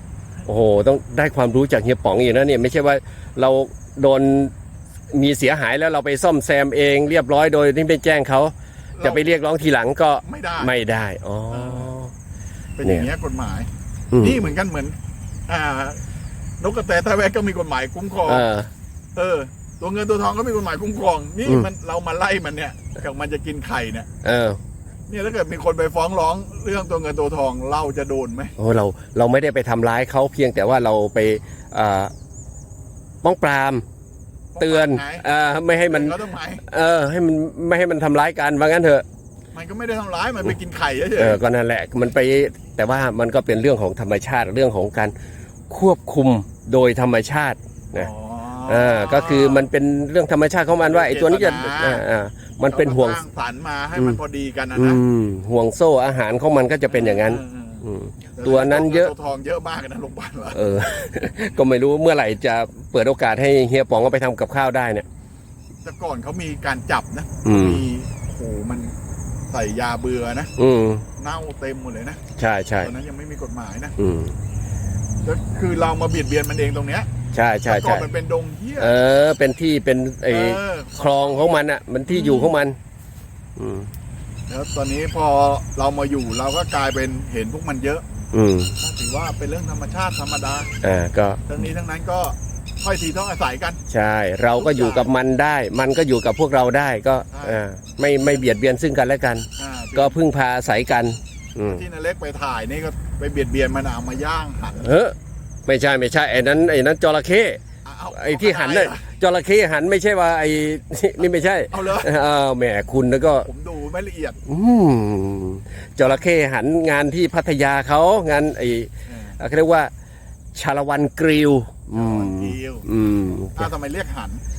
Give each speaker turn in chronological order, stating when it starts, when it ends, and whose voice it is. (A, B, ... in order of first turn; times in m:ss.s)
0:00.4-0:04.5 A
0:05.1-0:12.1 A
0:09.0-0:09.2 B
0:10.2-0:10.7 B
0:11.5-0:11.9 B
0:12.8-0:14.9 B
0:14.1-0:14.4 A
0:15.5-0:16.0 B
0:16.6-0:18.4 B
0:18.2-0:18.7 A
0:19.2-0:24.1 B
0:24.2-0:24.6 A
0:25.1-0:28.5 B
0:28.6-0:32.1 A
0:33.2-0:33.8 A
0:34.5-0:35.2 B
0:34.6-0:39.0 A
0:35.9-0:36.6 B
0:39.5-0:41.4 B
0:41.2-0:45.1 A
0:45.7-0:48.1 A
0:47.9-0:49.7 B
0:48.6-0:53.2 A
0:50.7-0:52.0 B
0:52.6-0:55.0 B
0:54.8-0:59.1 A
0:56.9-0:57.8 B
0:58.4-1:00.6 B
1:00.5-1:05.0 A
1:05.8-1:08.9 B
1:07.4-1:07.8 A
1:09.5-1:10.5 B
1:10.6-1:11.0 A
1:11.2-1:12.2 B
1:12.4-1:12.9 A
1:12.8-1:13.9 B
1:14.0-1:14.4 A
1:15.2-1:17.1 B
1:17.3-1:18.1 A
1:17.7-1:19.0 B
1:18.8-1:22.8 A
1:20.3-1:22.5 B
1:23.6-1:23.9 A
1:24.5-1:28.0 B
1:28.3-1:28.8 A
1:28.8-1:30.7 B
1:30.8-1:31.4 A
1:31.5-1:33.8 B
1:33.9-1:41.8 A
1:34.6-1:35.1 B
1:37.3-1:37.6 B
1:39.6-1:40.2 B
1:41.6-1:44.9 B
1:44.8-1:45.1 A
1:45.6-1:47.6 A
1:47.8-1:49.0 B
1:48.1-1:53.5 A
1:51.2-1:52.1 B
1:53.4-1:54.4 B
1:54.4-1:59.9 A
1:59.1-1:59.4 B
2:00.5-2:03.7 A
2:01.9-2:02.9 B
2:03.6-2:04.4 B